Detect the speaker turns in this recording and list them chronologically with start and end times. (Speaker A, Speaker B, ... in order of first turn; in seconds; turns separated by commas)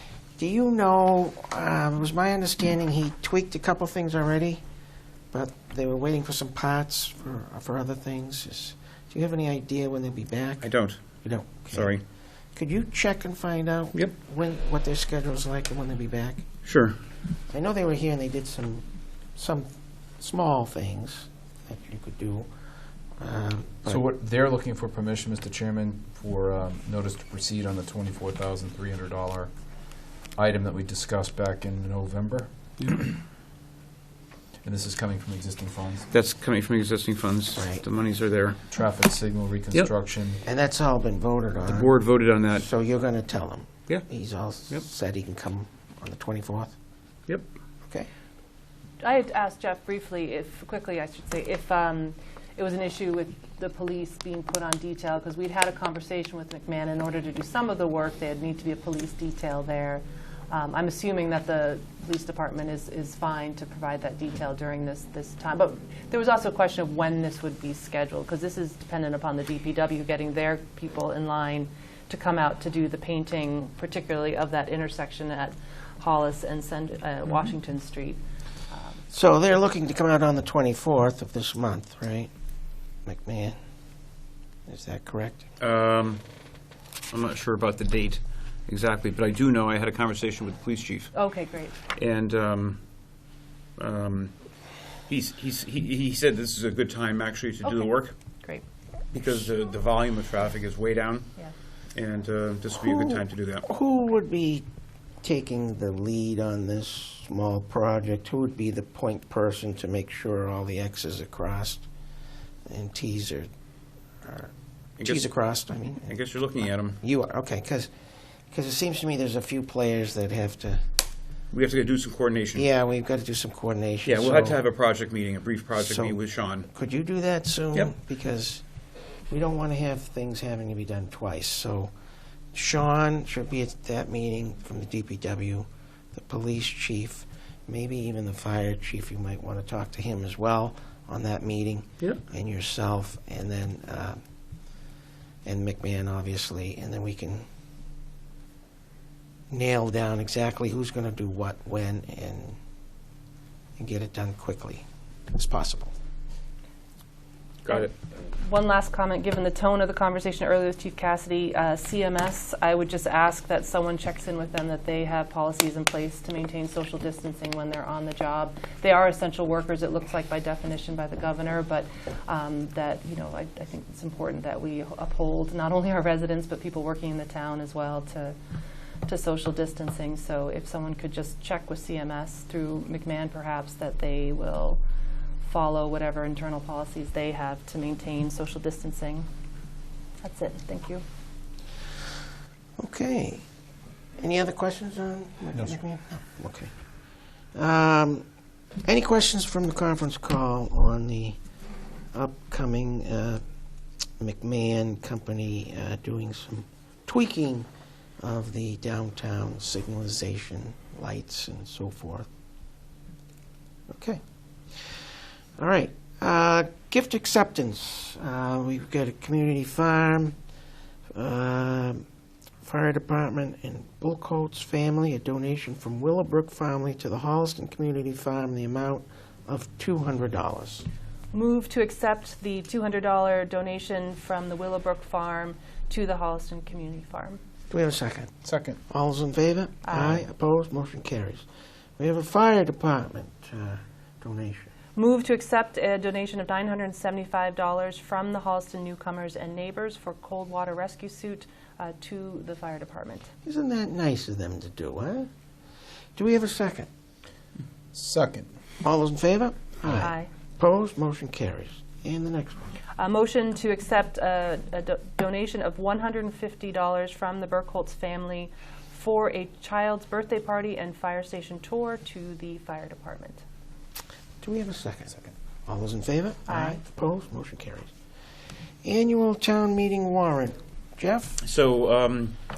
Speaker A: 0.4-4.6, Speaker A: 5.3-10.7, Speaker B: 10.6-11.0, Speaker A: 11.2-11.9, Speaker B: 11.7-12.0, Speaker A: 12.6-16.4, Speaker B: 16.6-17.0, Speaker A: 17.5-18.9, Speaker A: 19.4-22.5, Speaker A: 23.2-24.0, Speaker C: 23.9-29.5, Speaker C: 30.4-33.2, Speaker C: 34.6-36.1, Speaker B: 36.1-38.6, Speaker A: 37.6-37.8, Speaker C: 38.7-40.4, Speaker A: 40.4-41.9, Speaker B: 41.7-42.6, Speaker A: 42.5-46.7, Speaker D: 49.0-79.0, Speaker A: 79.1-82.3, Speaker A: 83.0-83.6, Speaker A: 84.7-85.5, Speaker B: 85.6-86.2, Speaker B: 87.1-91.1, Speaker D: 91.1-91.8, Speaker B: 91.9-92.8, Speaker B: 93.8-94.3, Speaker B: 95.1-98.2, Speaker D: 97.7-98.6, Speaker B: 99.1-101.3, Speaker B: 101.9-103.7, Speaker A: 102.8-104.7, Speaker A: 105.2-111.9, Speaker A: 112.7-113.5, Speaker A: 114.2-114.5, Speaker B: 115.0-115.3, Speaker A: 115.0-116.1, Speaker B: 116.1-117.0, Speaker A: 117.0-117.9, Speaker A: 118.5-120.9, Speaker B: 121.5-122.7, Speaker A: 122.5-124.6, Speaker B: 124.0-126.7, Speaker A: 125.8-126.2, Speaker A: 126.7-128.6, Speaker A: 129.3-131.9, Speaker A: 132.5-144.2, Speaker A: 145.4-147.4, Speaker A: 149.5-152.6, Speaker A: 153.8-155.9, Speaker B: 157.7-157.9, Speaker D: 157.7-178.4, Speaker D: 179.1-184.8, Speaker D: 185.4-189.3, Speaker D: 190.2-191.0, Speaker A: 192.8-193.4, Speaker A: 194.2-196.7, Speaker A: 197.5-198.2, Speaker A: 198.8-201.4, Speaker A: 202.1-203.4, Speaker A: 204.2-207.7, Speaker A: 208.2-212.3, Speaker A: 213.9-214.2, Speaker A: 215.6-220.3, Speaker A: 221.1-222.0, Speaker A: 222.6-230.9, Speaker D: 231.3-237.4, Speaker A: 237.7-238.3, Speaker C: 238.4-238.8, Speaker A: 238.9-241.4, Speaker D: 239.8-240.2, Speaker A: 242.0-244.7, Speaker D: 245.0-253.3, Speaker A: 253.4-255.3, Speaker A: 256.2-256.9, Speaker C: 257.9-258.5, Speaker A: 258.8-262.7, Speaker D: 260.0-260.3, Speaker D: 263.0-273.4, Speaker A: 274.4-277.9, Speaker D: 276.5-276.8, Speaker A: 278.9-281.4, Speaker B: 281.4-282.4